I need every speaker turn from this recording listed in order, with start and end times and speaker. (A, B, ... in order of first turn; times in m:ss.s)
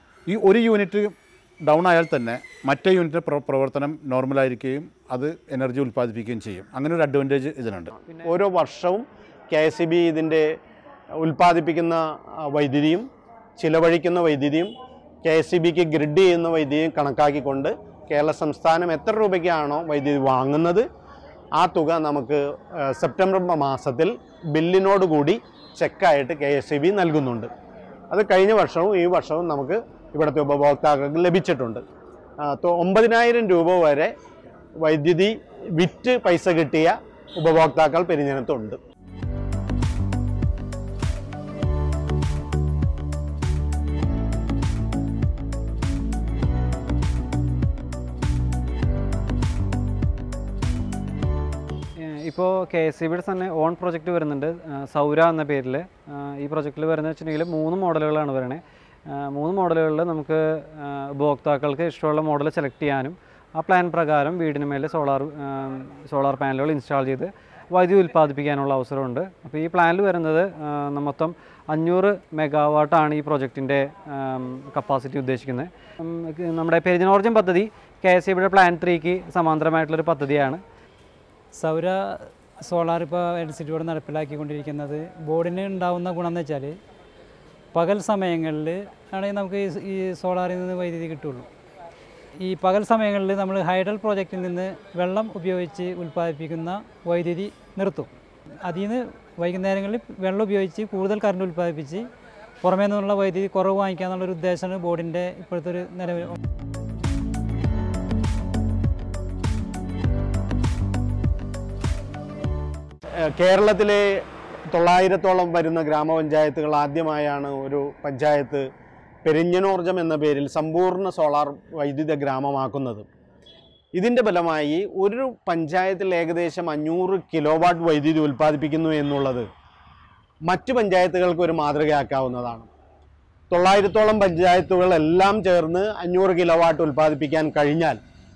0:00.3-0:07.9 A
0:08.0-0:08.4 B
0:08.2-0:10.6 C
0:11.2-0:13.1 C
0:13.6-0:20.8 C
0:21.6-0:27.5 C
0:28.1-0:31.8 C
0:32.4-0:34.1 C
0:34.8-0:38.8 C
0:52.0-1:20.6 B
1:21.6-1:26.8 D
1:27.7-1:31.5 D
1:32.4-1:38.1 D
1:38.6-1:42.1 D
1:42.6-1:46.4 D
1:53.2-1:58.7 C
1:59.2-2:03.1 C
2:03.9-2:09.5 C
2:10.4-2:12.7 C
2:13.5-2:18.0 C